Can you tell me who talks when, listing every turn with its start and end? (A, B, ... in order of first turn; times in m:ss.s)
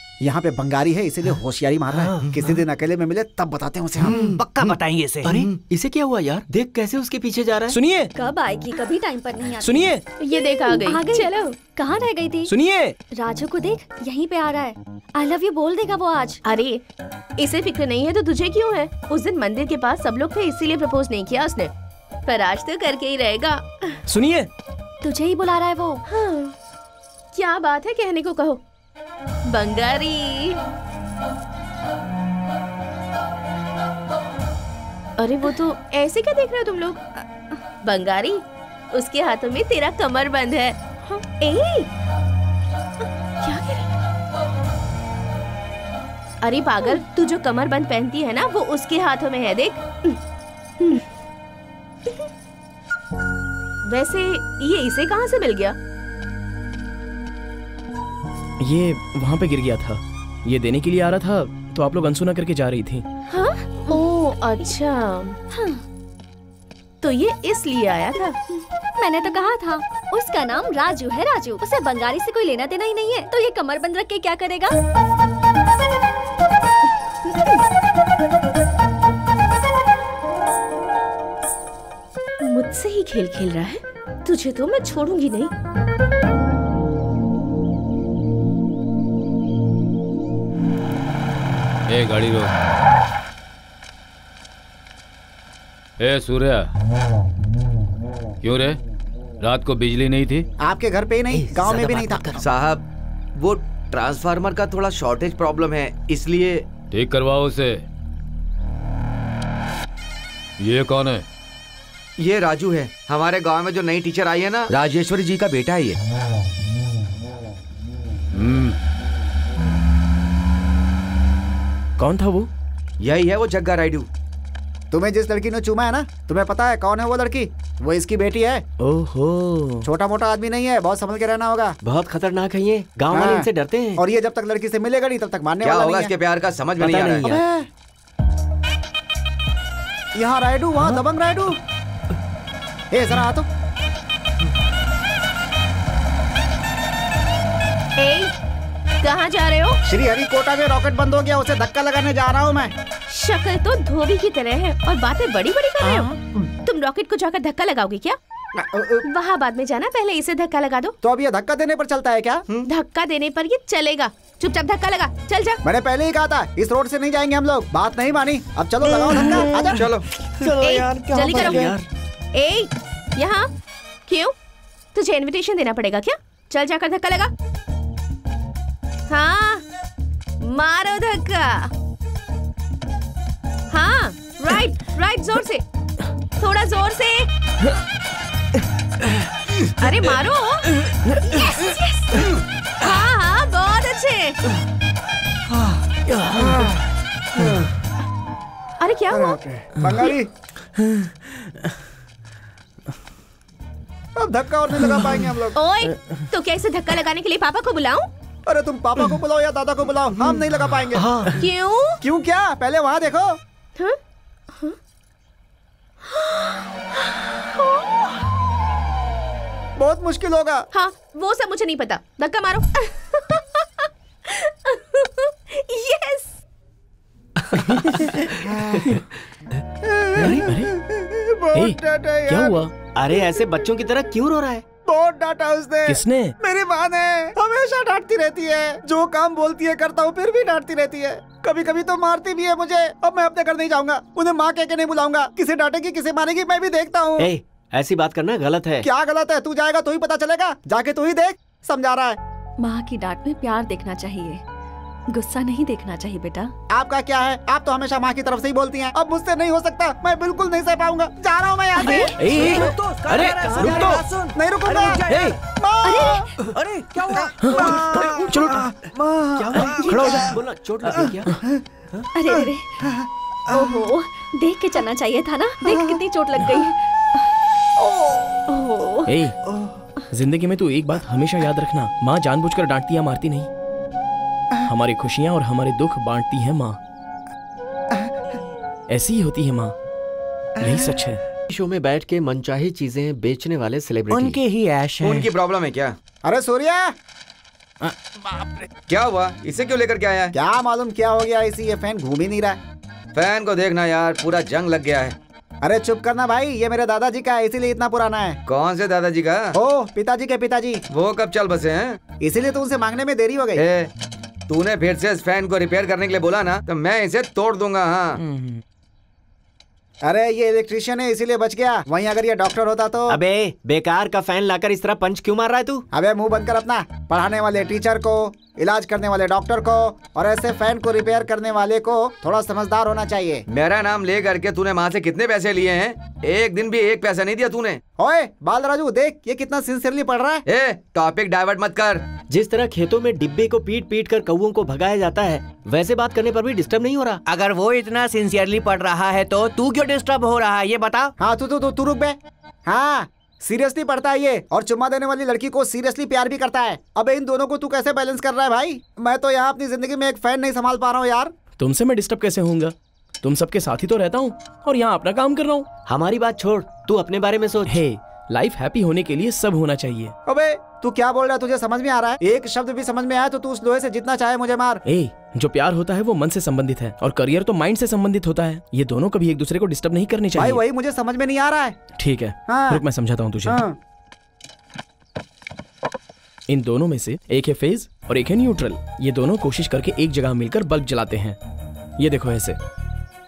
0:00.2-0:04.2 A
0:02.2-0:02.5 B
0:04.0-0:04.4 B
0:04.2-0:05.4 C
0:05.2-0:07.8 D
0:07.7-0:08.1 E
0:08.2-0:12.5 F
0:09.6-0:10.0 E
0:10.2-0:11.5 G
0:12.5-0:13.0 E
0:13.1-0:16.4 F
0:16.4-0:16.8 G
0:17.4-0:21.7 G
0:22.3-0:24.0 G
0:24.1-0:24.5 E
0:25.0-0:26.0 F
0:26.1-0:26.6 G
0:27.3-0:28.6 G
0:29.5-0:30.6 G
0:35.2-0:37.1 G
0:37.8-0:41.9 G
0:43.4-0:43.9 G
0:46.4-0:50.2 G
0:53.9-0:55.8 G
0:58.6-1:03.0 E
1:03.3-1:05.4 G
1:05.5-1:05.8 F
1:07.0-1:08.4 G
1:09.0-1:14.8 F
1:22.4-1:25.5 G
1:31.9-1:32.6 H
1:36.0-1:36.7 H
1:38.4-1:38.8 H
1:39.4-1:40.5 H
1:40.6-1:42.4 A
1:42.4-1:46.7 B
1:46.9-1:47.8 H
1:50.6-1:51.2 H
1:52.2-1:56.0 B
1:58.3-1:58.8 H
2:02.0-2:02.5 E
2:03.0-2:04.1 B
2:04.9-2:08.6 A
2:08.8-2:09.9 E
2:09.8-2:11.8 A
2:11.8-2:14.0 D
2:13.1-2:16.1 A
2:15.6-2:17.4 B
2:16.8-2:17.4 D
2:17.2-2:17.7 A
2:20.2-2:21.6 A
2:22.9-2:23.5 A
2:28.0-2:28.3 G
2:29.0-2:29.8 G
2:29.8-2:32.7 A
2:33.1-2:36.1 G
2:35.8-2:36.5 A
2:36.6-2:38.2 G
2:38.6-2:39.0 A
2:39.0-2:41.0 G
2:41.0-2:42.4 A
2:42.7-2:45.6 G
2:45.6-2:49.9 A
2:49.7-2:50.1 B
2:50.5-2:51.8 D
2:50.6-2:51.7 G
2:52.3-2:53.5 G
2:54.1-2:54.3 G
2:54.9-2:57.3 G
2:59.1-2:59.6 G
3:00.4-3:01.7 G
3:03.7-3:05.6 G
3:06.4-3:07.3 G
3:09.8-3:10.7 G
3:10.9-3:11.2 E
3:11.2-3:12.2 G
3:12.8-3:14.4 G
3:16.1-3:16.7 E
3:16.4-3:16.7 A
3:18.8-3:19.4 G
3:19.1-3:20.3 A
3:20.8-3:21.5 E
3:24.2-3:25.6 A
3:25.6-3:28.1 G
3:28.5-3:31.2 A
3:31.0-3:31.3 D
3:31.4-3:32.0 G
3:32.0-3:33.4 A
3:36.1-3:36.6 G
3:37.2-3:38.0 G
3:39.8-3:40.7 A
3:40.7-3:43.7 G
3:44.3-3:46.4 G
3:48.4-3:48.9 A
3:49.8-3:52.6 A
3:50.2-3:50.6 D
3:50.2-3:50.8 E
3:51.5-3:52.7 E
3:53.0-3:54.6 D
3:54.8-4:07.3 A
3:55.9-3:56.3 E
4:07.2-4:08.8 D
4:08.8-4:12.2 A
4:12.6-4:14.4 F
4:15.1-4:16.5 F
4:16.7-4:22.6 A
4:21.8-4:25.2 C
4:22.1-4:23.6 E
4:22.4-4:24.0 D
4:23.4-4:26.3 A
4:25.8-4:26.3 F
4:26.6-4:27.8 C
4:27.4-4:28.7 E
4:27.4-4:30.3 A
4:29.4-4:31.4 D
4:29.8-4:30.2 F
4:29.9-4:30.3 E
4:32.1-4:32.8 F
4:32.8-4:33.6 A
4:33.5-4:37.3 F
4:38.5-4:39.2 F
4:39.1-4:39.4 E
4:40.1-4:43.5 E
4:44.7-4:46.8 E
4:47.9-4:48.4 A
4:48.9-4:49.7 E
4:50.6-4:51.2 E
4:50.6-4:50.9 A
4:51.5-4:54.4 D
4:54.1-4:55.3 C
4:55.0-4:56.0 B
4:56.2-4:56.9 A
4:58.9-5:00.3 B
5:00.3-5:02.6 A
5:03.1-5:05.2 B
5:05.6-5:08.4 A
5:08.5-5:09.6 B
5:09.6-5:10.8 A
5:10.9-5:12.0 B
5:12.2-5:13.6 A
5:13.6-5:13.9 B
5:14.5-5:18.2 B
5:18.2-5:18.6 E
5:20.0-5:23.2 A
5:23.1-5:25.8 D
5:25.9-5:33.4 A
5:33.5-5:37.8 B
5:38.0-5:40.4 A
5:40.5-5:42.0 B
5:42.3-5:47.2 D
5:47.3-5:51.1 C
5:51.2-6:01.3 A
6:01.6-6:05.7 E
6:05.9-6:07.8 D
6:07.7-6:10.2 E
6:10.3-6:14.8 A
6:14.9-6:20.6 E
6:20.4-6:21.8 A
6:22.0-6:23.6 E
6:22.5-6:22.8 A
6:23.4-6:23.8 A
6:26.5-6:31.4 E
6:32.0-6:32.6 E